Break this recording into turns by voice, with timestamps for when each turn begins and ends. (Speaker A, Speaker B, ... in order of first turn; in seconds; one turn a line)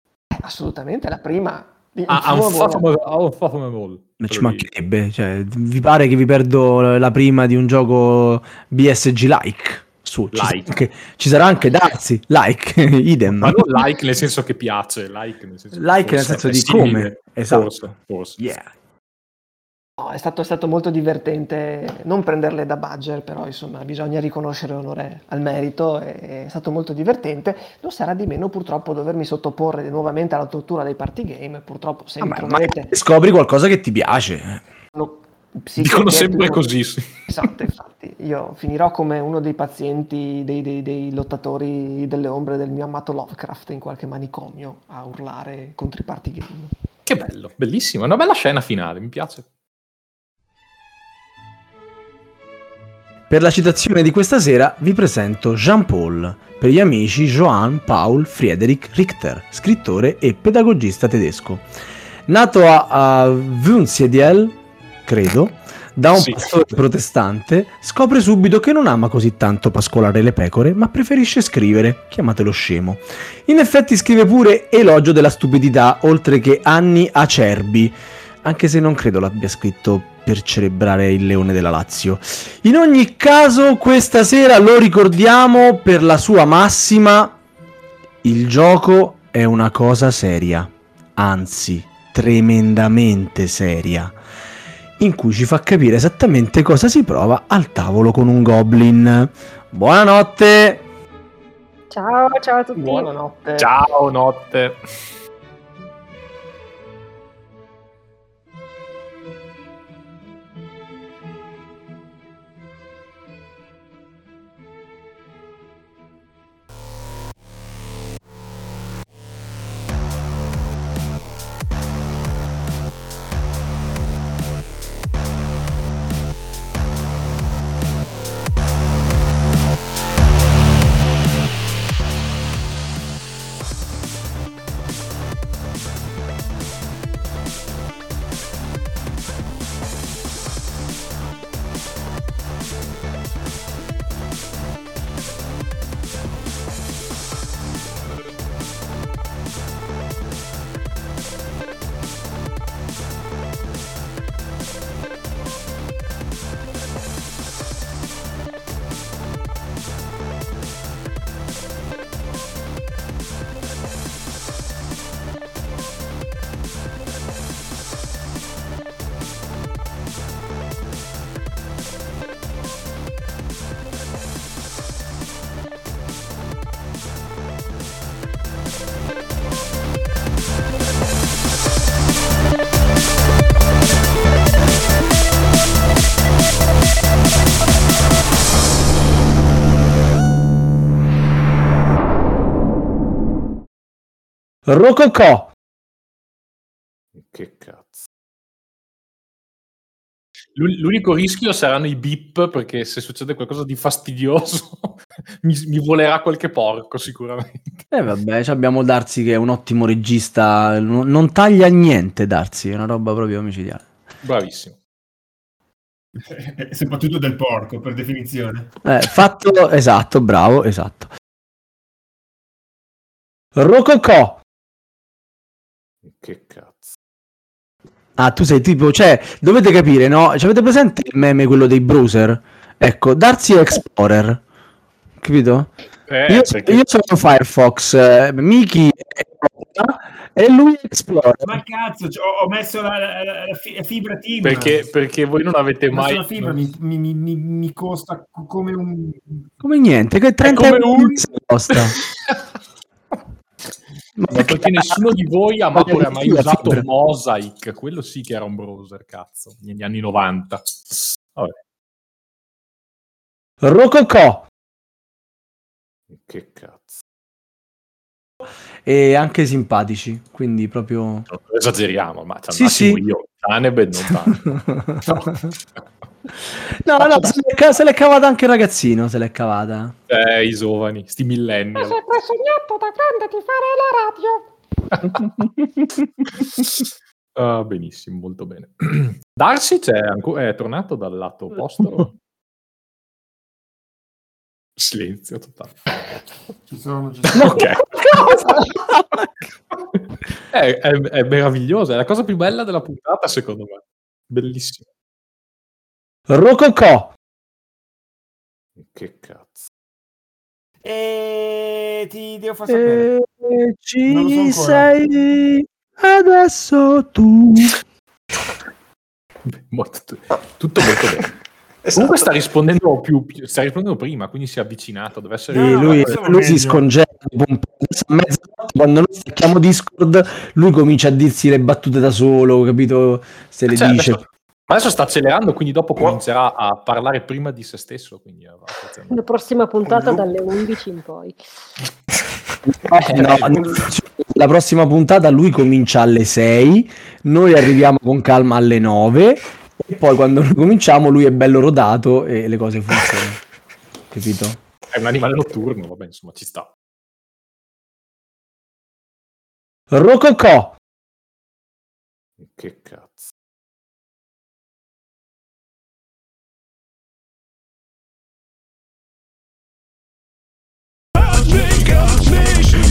Speaker A: 0.3-2.9
Speaker B: 2.1-4.7
Speaker C: 4.2-13.7
Speaker B: 10.3-10.8
Speaker B: 13.3-18.5
Speaker C: 15.7-17.7
Speaker C: 18.4-18.7
Speaker A: 20.0-32.9
Speaker C: 32.2-34.6
Speaker A: 34.9-36.6
Speaker B: 35.8-37.1
Speaker A: 37.3-46.7
Speaker B: 47.0-49.4
Speaker C: 53.3-61.6
Speaker C: 62.3-87.4
Speaker B: 66.1-66.5
Speaker C: 88.2-94.1
Speaker C: 95.0-100.8
Speaker D: 101.9-103.1
Speaker A: 102.8-103.7
Speaker B: 103.6-104.8
Speaker C: 194.7-195.5
Speaker B: 197.1-198.0
Speaker B: 200.5-207.9
Speaker C: 207.9-213.8
Speaker B: 214.2-214.8
Speaker E: 216.2-218.7
Speaker C: 218.8-221.1
Speaker C: 223.6-224.4
Speaker B: 226.0-226.9
Speaker C: 228.2-234.4
Speaker C: 235.2-235.7
Speaker B: 236.1-236.8
Speaker C: 236.3-241.6
Speaker E: 241.4-244.8
Speaker B: 244.4-246.6
Speaker E: 245.9-249.5
Speaker C: 249.6-251.9
Speaker B: 250.4-252.4
Speaker C: 254.2-255.0
Speaker B: 254.3-261.5
Speaker C: 255.7-256.8
Speaker C: 263.6-264.5
Speaker B: 266.1-266.9
Speaker C: 268.8-271.3
Speaker B: 271.3-275.3
Speaker C: 272.5-273.0
Speaker C: 274.4-275.1
Speaker C: 276.8-279.9
Speaker B: 280.1-282.0
Speaker A: 281.8-284.5
Speaker C: 285.4-286.0
Speaker B: 286.3-292.1
Speaker B: 294.8-295.7
Speaker E: 296.7-297.8
Speaker B: 297.3-298.6
Speaker C: 297.4-299.0
Speaker B: 300.5-304.8
Speaker C: 306.3-307.1
Speaker B: 308.8-309.6
Speaker E: 310.8-313.1
Speaker C: 312.7-317.8
Speaker E: 314.1-314.9
Speaker B: 319.4-321.4
Speaker B: 321.9-326.1
Speaker E: 325.5-326.8
Speaker C: 325.5-334.2
Speaker B: 333.7-339.1
Speaker D: 339.1-341.4
Speaker C: 342.6-353.4
Speaker B: 343.0-343.9
Speaker C: 354.1-354.6
Speaker B: 354.9-356.7
Speaker C: 359.9-360.8
Speaker B: 362.4-363.3